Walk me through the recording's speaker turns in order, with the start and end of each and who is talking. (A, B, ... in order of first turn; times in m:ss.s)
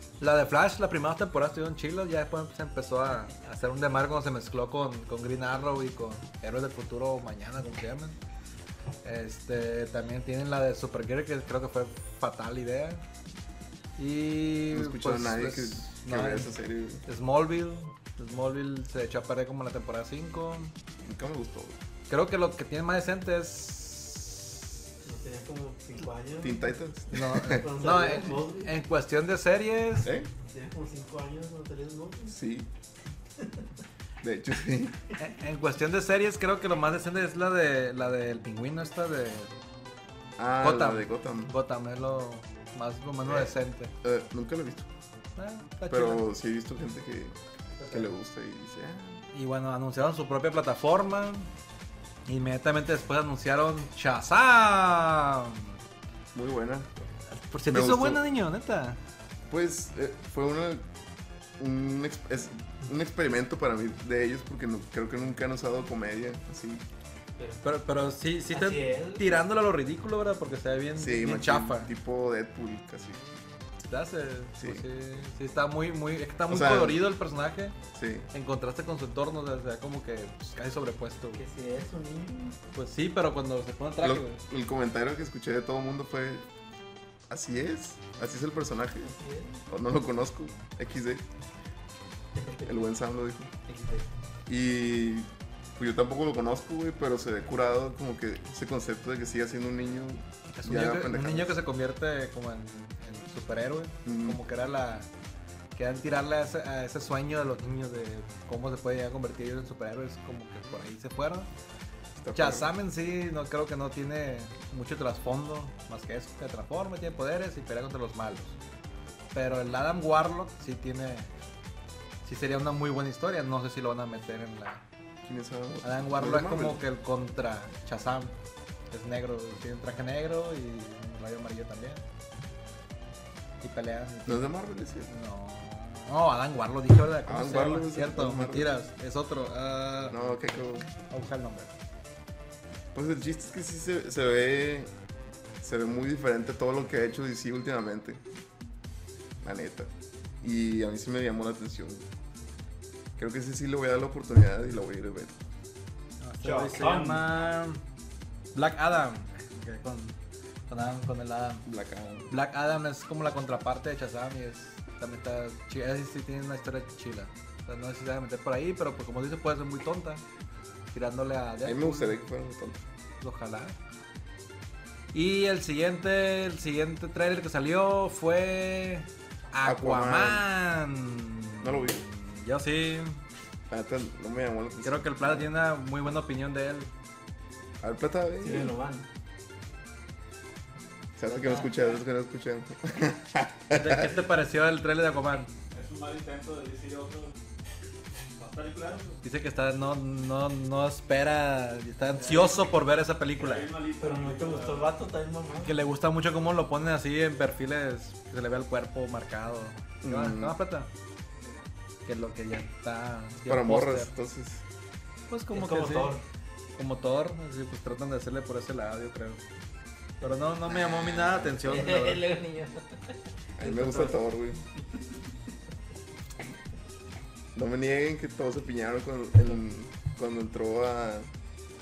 0:00.2-0:08.2 A
0:09.0-0:13.0 A
0:14.0-0:16.5 A
0:14.7-0:17.0 B
0:17.1-0:20.7 A
0:21.0-0:21.8 B
0:22.1-0:24.7 A
0:25.0-0:26.7 C
0:26.4-0:27.7 B
0:27.1-0:30.1 A
0:27.6-0:28.7 C
0:30.0-0:30.3 B
0:30.4-0:32.4 C
0:32.3-0:32.7 B
0:34.2-0:35.0 B
0:35.2-0:39.5 A
0:40.4-0:41.5 B
0:40.6-0:43.9 A
0:43.2-0:44.9 B
0:45.4-0:46.2 A
0:45.9-0:47.4 B
0:47.8-0:48.1 A
0:47.9-0:49.2 B
0:49.3-0:51.5 A
0:52.3-0:55.7 A
0:56.3-0:56.9 B
0:57.3-0:59.0 A
0:57.7-0:58.2 B
0:59.5-1:00.9 B
1:01.6-1:06.8 B
1:07.6-1:11.9 A
1:08.5-1:09.4 C
1:11.0-1:13.3 B
1:13.9-1:17.8 A
1:14.6-1:14.8 B
1:16.5-1:17.0 B
1:17.9-1:18.3 B
1:18.3-1:21.4 A
1:21.4-1:22.6 C
1:22.7-1:24.4 A
1:24.0-1:26.5 B
1:27.3-1:29.1 B
1:29.0-1:29.6 C
1:29.7-1:31.2 B
1:32.4-1:32.7 C
1:32.6-1:33.5 B
1:33.7-1:34.1 C
1:34.5-1:41.6 B
1:40.6-1:45.1 A
1:44.0-1:44.4 B
1:45.8-1:51.5 A
1:52.2-1:52.7 B
1:52.3-1:58.6 A
1:59.3-2:01.3 A
2:02.2-2:04.8 A
2:05.2-2:06.8 B
2:05.8-2:08.4 A
2:08.9-2:12.0 A
2:13.6-2:14.5 A
2:14.3-2:15.1 B
2:15.1-2:21.7 A
2:17.3-2:18.7 B
2:20.1-2:20.9 B
2:22.9-2:24.9 B
2:25.6-2:28.2 B
2:29.4-2:32.1 B
2:33.2-2:35.4 B
2:36.2-2:37.8 A
2:36.4-2:36.8 D
2:36.5-2:37.2 C
2:38.5-2:40.2 A
2:40.7-2:41.7 A
2:41.7-2:42.3 B
2:42.3-2:50.2 A
2:50.9-2:52.2 A
2:51.6-2:52.8 B
2:53.2-2:53.8 A
2:55.1-3:03.2 A
2:59.6-3:00.4 B
3:01.6-3:02.0 B
3:03.7-3:05.5 B
3:04.8-3:06.9 A
3:07.8-3:08.7 B
3:08.4-3:09.1 C
3:11.2-3:14.1 B
3:11.3-3:12.0 C
3:13.7-3:15.5 A
3:15.7-3:17.4 D
3:18.4-3:19.2 D
3:19.2-3:23.7 A
3:22.2-3:22.7 D
3:23.4-3:24.9 D
3:24.0-3:25.8 C
3:25.6-3:30.9 A
3:30.0-3:30.6 B
3:32.1-3:34.1 A
3:33.4-3:34.6 B
3:35.3-3:36.2 A
3:35.5-3:36.2 C
3:36.8-3:39.4 A
3:40.2-3:42.3 A
3:40.7-3:44.2 C
3:43.6-3:44.6 B
3:47.5-3:51.3 B